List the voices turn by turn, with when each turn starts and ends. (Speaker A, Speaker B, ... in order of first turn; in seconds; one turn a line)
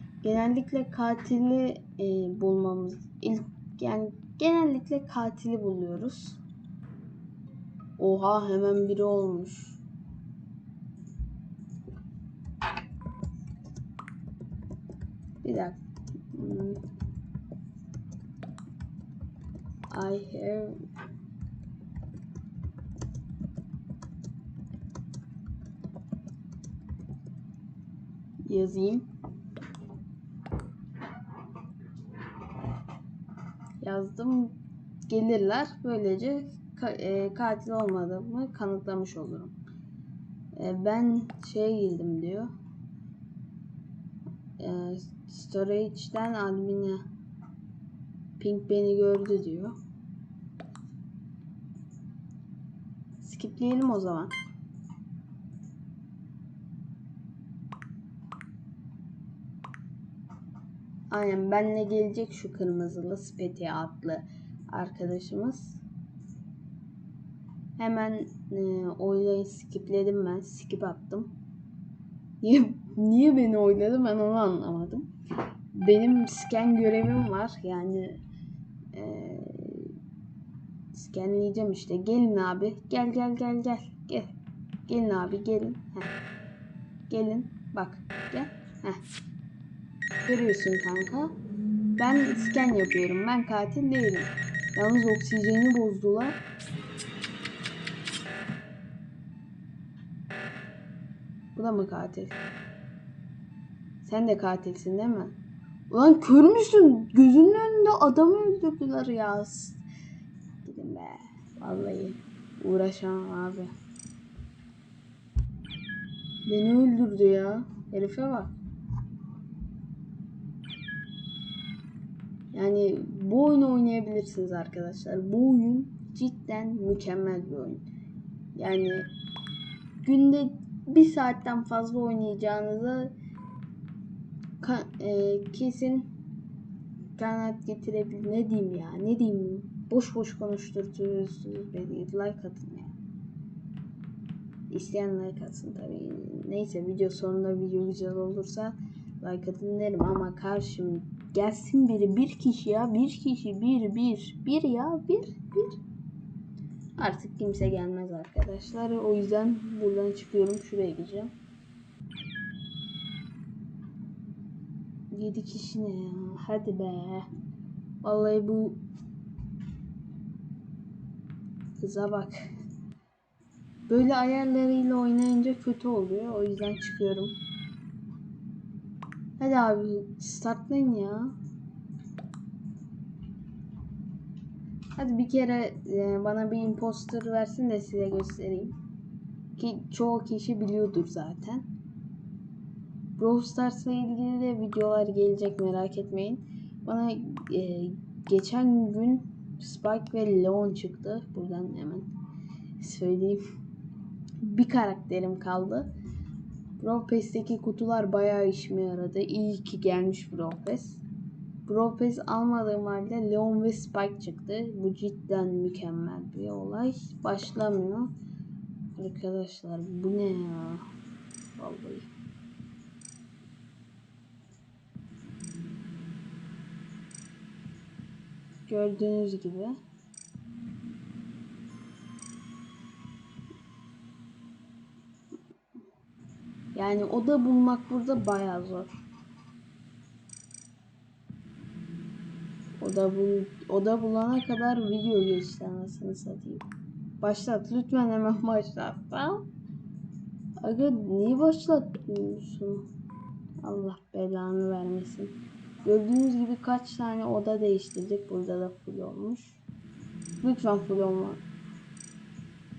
Speaker A: 0.2-6.4
Speaker A: 8.0-9.8
Speaker A: 15.4-15.8
Speaker A: 16.3-16.8
Speaker A: 19.9-20.8
Speaker A: 28.5-29.1
Speaker A: 33.8-34.5
Speaker A: 35.1-39.5
Speaker A: 40.5-42.5
Speaker A: 44.6-47.0
Speaker A: 48.4-49.8
Speaker A: 53.2-54.3
Speaker A: 61.1-65.8
Speaker A: 67.8-71.3
Speaker A: 72.4-75.1
Speaker A: 75.7-78.2
Speaker A: 78.9-80.0
Speaker A: 80.9-84.3
Speaker A: 84.9-86.1
Speaker A: 87.1-89.0
Speaker A: 90.2-91.3
Speaker A: 92.0-96.4
Speaker A: 101.5-102.4
Speaker A: 104.0-105.3
Speaker A: 105.9-109.8
Speaker A: 110.6-113.7
Speaker A: 116.5-118.6
Speaker A: 122.5-127.8
Speaker A: 128.6-129.1
Speaker A: 130.0-133.1
Speaker A: 134.6-136.1
Speaker A: 137.2-143.0
Speaker A: 144.7-155.8
Speaker A: 157.0-161.3
Speaker A: 165.1-167.3
Speaker A: 168.0-168.8
Speaker A: 171.8-172.4
Speaker A: 173.9-177.3
Speaker A: 179.4-181.3
Speaker A: 185.0-188.8
Speaker A: 189.6-191.7
Speaker A: 193.2-202.1
Speaker A: 202.8-203.4
Speaker A: 204.4-205.9
Speaker A: 206.8-211.0
Speaker A: 211.7-218.1
Speaker A: 219.0-220.8
Speaker A: 221.6-222.1
Speaker A: 228.7-229.8
Speaker A: 236.7-238.9
Speaker A: 242.8-246.7
Speaker A: 247.2-249.4
Speaker A: 250.6-252.9
Speaker A: 253.6-259.6
Speaker A: 260.4-261.4